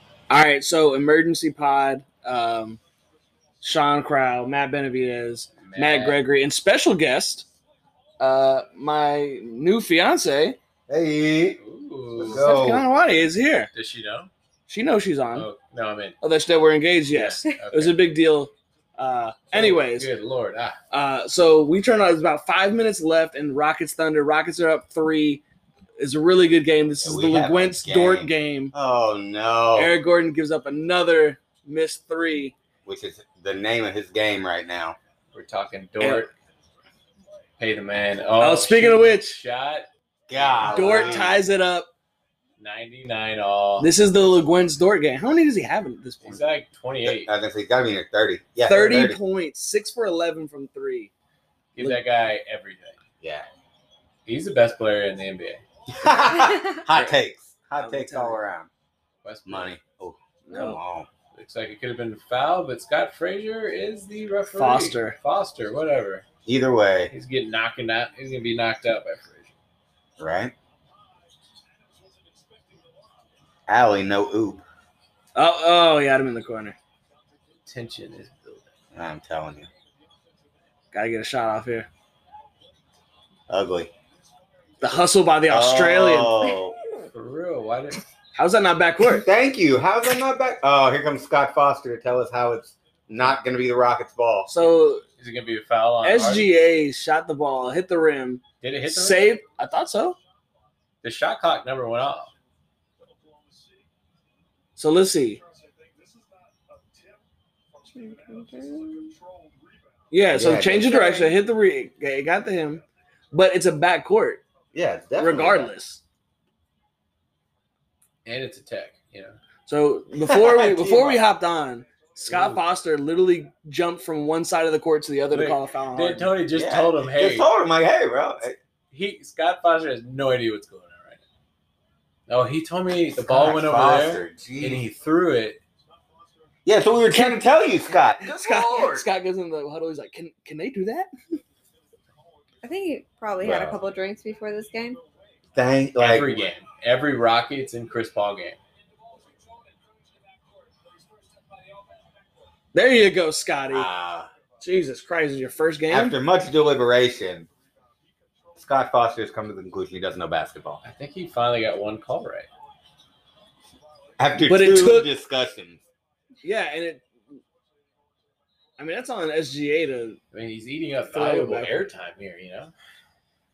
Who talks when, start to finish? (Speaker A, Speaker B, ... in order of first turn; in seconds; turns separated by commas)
Speaker A: 0.3-2.8, Speaker A: 3.6-7.5, Speaker B: 5.6-6.2, Speaker A: 8.2-10.6, Speaker C: 10.9-11.6, Speaker B: 11.6-12.6, Speaker C: 12.2-12.9, Speaker A: 12.2-13.7, Speaker B: 13.7-14.3, Speaker A: 14.7-15.5, Speaker B: 15.3-16.2, Speaker A: 16.2-20.1, Speaker B: 17.1-18.0, Speaker B: 19.5-20.8, Speaker A: 20.9-25.4, Speaker A: 26.0-28.7, Speaker C: 27.0-29.9, Speaker A: 29.8-32.5, Speaker C: 32.9-35.0, Speaker B: 35.3-36.3, Speaker A: 36.0-36.3, Speaker B: 37.6-41.4, Speaker A: 38.4-39.4, Speaker C: 40.3-41.3, Speaker A: 40.6-41.9, Speaker B: 42.6-43.9, Speaker A: 43.8-46.4, Speaker B: 46.2-47.3, Speaker C: 47.0-49.2, Speaker A: 48.7-51.1, Speaker B: 51.8-53.0, Speaker C: 53.2-53.5, Speaker B: 54.3-55.6, Speaker C: 55.9-58.7, Speaker A: 57.8-58.4, Speaker B: 59.2-59.7, Speaker C: 59.5-61.1, Speaker A: 60.5-60.8, Speaker B: 61.3-66.2, Speaker A: 64.5-65.2, Speaker C: 66.5-67.1, Speaker B: 67.1-69.6, Speaker C: 70.2-70.5, Speaker C: 73.7-74.6, Speaker A: 75.3-76.8, Speaker B: 77.7-78.7, Speaker C: 78.9-79.7, Speaker A: 80.9-81.9, Speaker C: 83.5-83.9, Speaker A: 84.8-86.4, Speaker C: 85.5-86.8, Speaker B: 87.1-88.0, Speaker A: 88.4-89.3, Speaker C: 89.0-94.5, Speaker A: 94.5-95.0, Speaker B: 95.2-96.5, Speaker A: 96.0-100.2, Speaker B: 98.6-99.4, Speaker B: 101.0-102.3, Speaker A: 104.8-105.4, Speaker D: 107.9-109.2, Speaker A: 110.1-114.4, Speaker C: 110.3-111.3, Speaker C: 114.7-115.7, Speaker A: 115.2-116.0, Speaker B: 118.2-119.4, Speaker A: 119.7-126.3, Speaker C: 120.2-121.2, Speaker C: 122.3-122.6, Speaker B: 125.3-127.5, Speaker C: 126.5-128.6, Speaker B: 128.9-131.2, Speaker B: 132.3-135.6, Speaker C: 133.2-134.8, Speaker C: 136.7-139.1, Speaker A: 137.1-137.4, Speaker A: 138.2-141.1, Speaker D: 142.6-145.0, Speaker C: 143.4-143.8, Speaker C: 145.6-146.4, Speaker B: 146.0-148.6, Speaker A: 152.7-153.9, Speaker C: 153.7-154.3, Speaker A: 154.6-156.2, Speaker C: 155.9-157.5, Speaker C: 158.6-160.8, Speaker B: 160.8-162.5, Speaker C: 164.2-165.8, Speaker A: 164.5-165.1, Speaker A: 166.4-167.0, Speaker A: 168.8-170.2, Speaker B: 170.3-172.7, Speaker A: 171.1-171.8